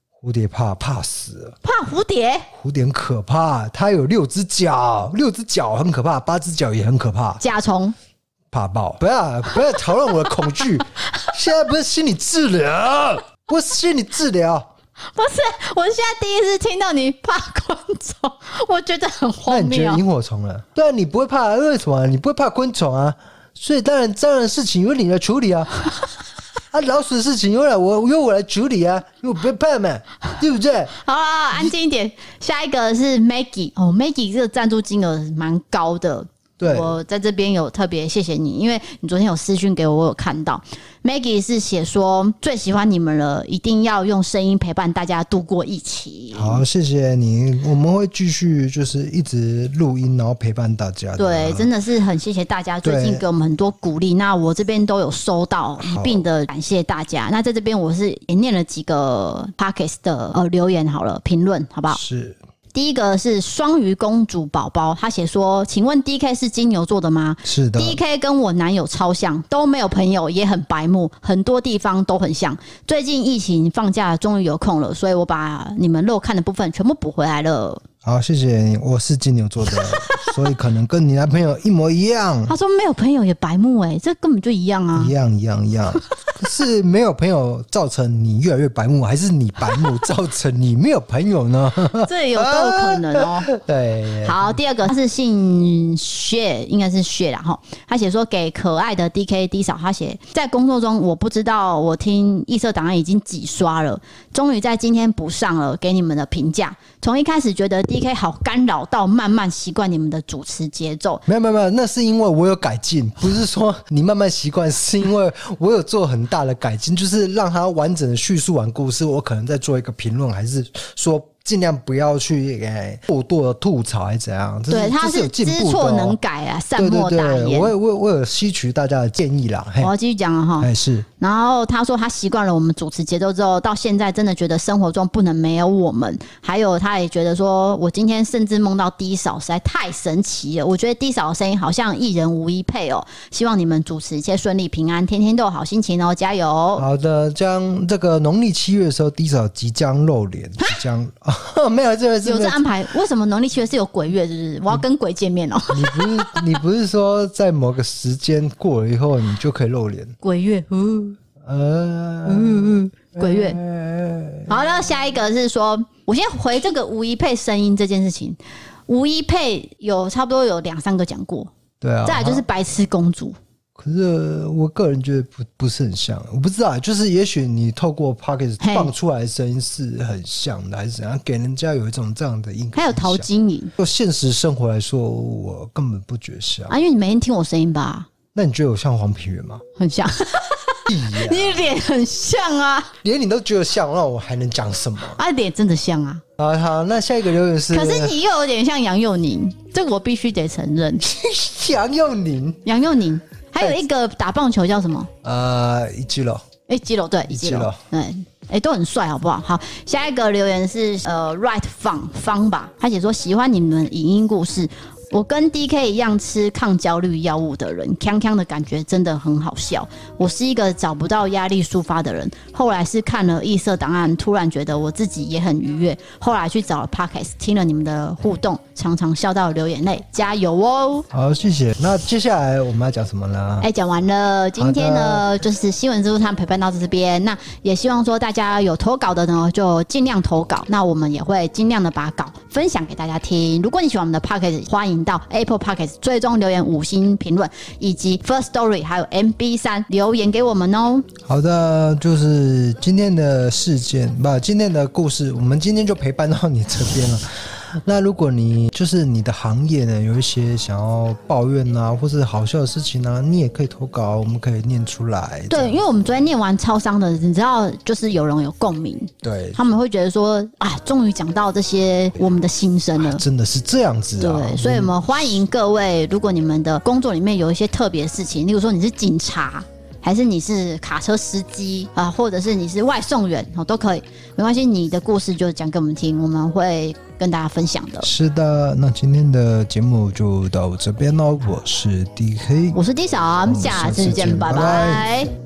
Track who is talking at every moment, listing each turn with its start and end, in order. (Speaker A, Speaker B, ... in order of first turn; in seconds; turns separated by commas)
Speaker A: 0.2-1.6, Speaker B: 1.6-2.5, Speaker A: 2.5-7.4, Speaker B: 7.4-8.0, Speaker A: 8.5-14.7, Speaker B: 15.1-20.0, Speaker A: 19.5-25.8, Speaker A: 26.7-30.9, Speaker B: 31.0-46.6, Speaker A: 36.6-37.0, Speaker A: 46.3-51.7, Speaker B: 51.2-62.0, Speaker A: 52.8-53.2, Speaker A: 55.8-56.2, Speaker A: 61.9-62.4, Speaker B: 62.7-77.8, Speaker A: 67.5-68.0, Speaker A: 78.0-82.5, Speaker B: 80.0-80.3, Speaker B: 82.5-85.1, Speaker A: 85.0-94.5, Speaker B: 92.0-93.5, Speaker B: 94.2-111.2, Speaker A: 111.3-126.2, Speaker B: 124.7-127.7, Speaker A: 126.8-129.9, Speaker B: 129.8-146.8, Speaker A: 130.6-131.1, Speaker A: 146.8-152.6, Speaker B: 152.2-156.4, Speaker A: 155.7-160.1, Speaker B: 160.2-161.2, Speaker A: 161.4-164.9, Speaker B: 162.2-163.6, Speaker B: 164.5-171.5, Speaker A: 171.8-172.4, Speaker B: 172.1-173.4, Speaker A: 173.8-186.7, Speaker B: 178.6-178.9, Speaker B: 182.7-183.7, Speaker B: 186.7-188.1, Speaker A: 188.3-189.6, Speaker B: 189.8-192.9, Speaker A: 190.9-191.7, Speaker A: 193.0-195.2, Speaker B: 195.1-196.2, Speaker A: 196.4-198.2, Speaker B: 197.7-201.1, Speaker A: 201.0-202.6, Speaker B: 202.6-205.1, Speaker A: 205.2-206.4, Speaker B: 206.7-231.1, Speaker A: 207.3-207.8, Speaker A: 231.1-233.7, Speaker B: 233.6-251.1, Speaker A: 234.6-235.2, Speaker A: 251.2-265.8, Speaker B: 265.5-273.2, Speaker A: 269.2-269.6, Speaker A: 273.0-275.4, Speaker B: 274.2-288.1, Speaker A: 288.0-292.8, Speaker B: 292.7-295.3, Speaker A: 293.4-295.3